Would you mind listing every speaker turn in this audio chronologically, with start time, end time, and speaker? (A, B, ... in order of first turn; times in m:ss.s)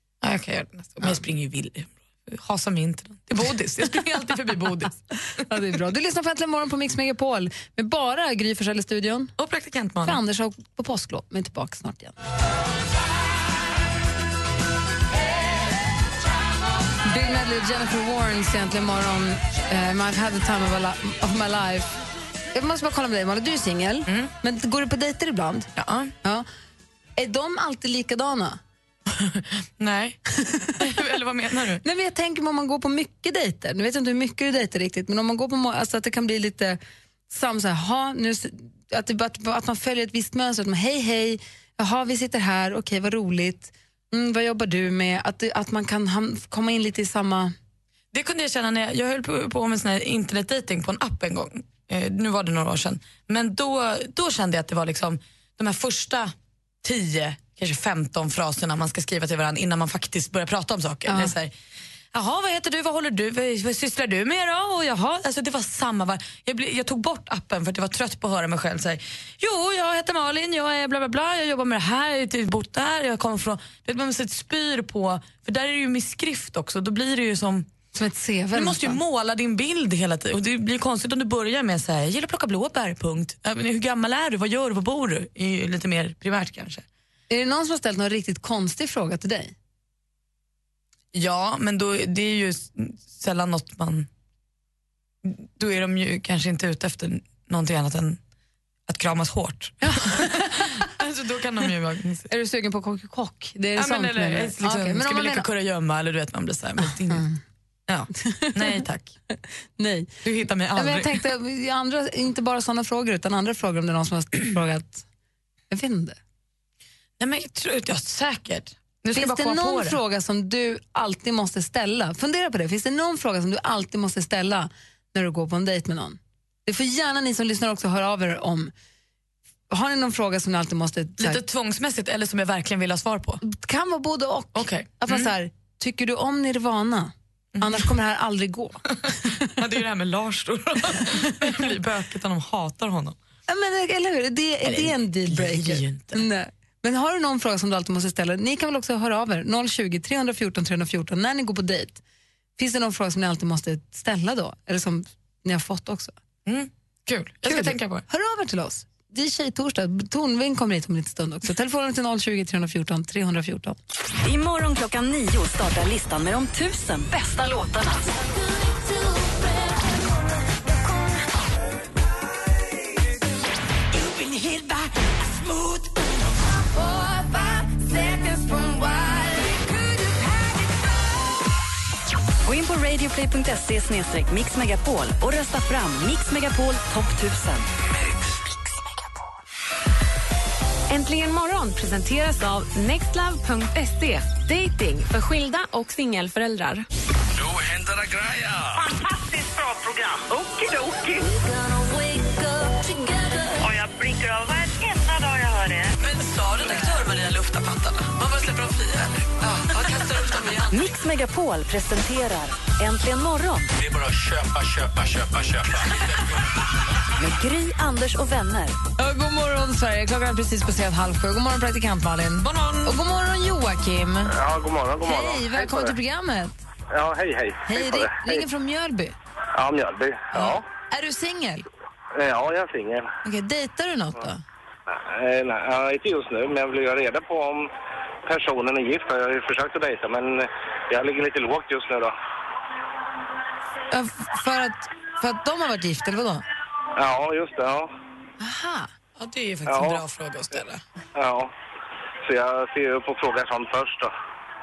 0:00.2-0:05.0 A
0:05.4-0:09.3 B
0:09.4-0:10.2 A
0:10.0-0:12.2 B
0:17.0-0:21.9 B
0:22.5-0:25.7 B
0:24.1-0:24.3 A
0:25.8-0:26.1 A
0:27.2-0:28.6 B
0:29.1-0:31.8 A
0:31.8-0:47.6 B
0:48.1-1:01.5 A
1:01.1-1:01.3 B
1:02.1-1:17.7 A
1:17.9-1:19.0 B
1:18.5-1:26.8 A
1:27.3-1:29.5 B
1:31.1-1:34.1 A
1:35.2-1:38.2 A
1:38.9-1:42.3 A
1:39.8-1:40.7 B
1:42.3-1:45.5 B
1:43.8-1:47.3 A
1:47.1-1:47.4 B
1:47.9-1:49.2 A
1:48.2-1:48.8 B
1:49.8-1:50.1 B
1:50.2-1:51.2 A
1:50.8-1:55.0 B
1:55.7-1:56.2 B
1:57.2-2:00.0 A
1:59.1-2:08.7 B
2:09.7-2:11.4 B
2:11.2-2:13.4 A
2:13.4-2:19.5 B
2:14.5-2:15.3 A
2:17.6-2:17.9 A
2:19.0-2:23.2 A
2:23.5-2:32.0 B
2:24.6-2:26.2 A
2:32.6-2:36.1 B
2:36.5-2:38.0 A
2:37.5-2:43.8 B
2:44.2-2:51.2 C
2:53.9-2:56.0 C
2:56.8-3:00.8 C
3:02.4-3:07.7 C
3:08.4-3:08.8 C
3:10.9-3:16.9 D
3:17.7-3:18.6 E
3:18.7-3:21.3 F
3:21.2-3:23.7 C
3:23.6-3:26.0 F
3:26.0-3:30.9 A
3:30.7-3:33.7 C
3:34.1-3:35.4 E
3:37.2-3:38.8 C
3:39.0-3:44.3 B
3:42.4-3:43.0 A
3:44.3-3:46.0 G
3:45.0-3:46.6 B
3:46.9-3:48.4 G
3:47.7-3:49.2 B
3:49.6-3:50.6 G
3:50.3-3:51.7 B
3:52.2-3:53.1 G
3:53.2-3:54.4 B
3:54.9-3:57.7 G
3:58.3-4:02.1 G
4:03.9-4:06.4 B
4:07.0-4:07.9 G
4:08.4-4:08.9 B
4:09.2-4:10.8 A
4:09.7-4:10.0 G
4:11.2-4:11.5 G
4:12.3-4:14.1 G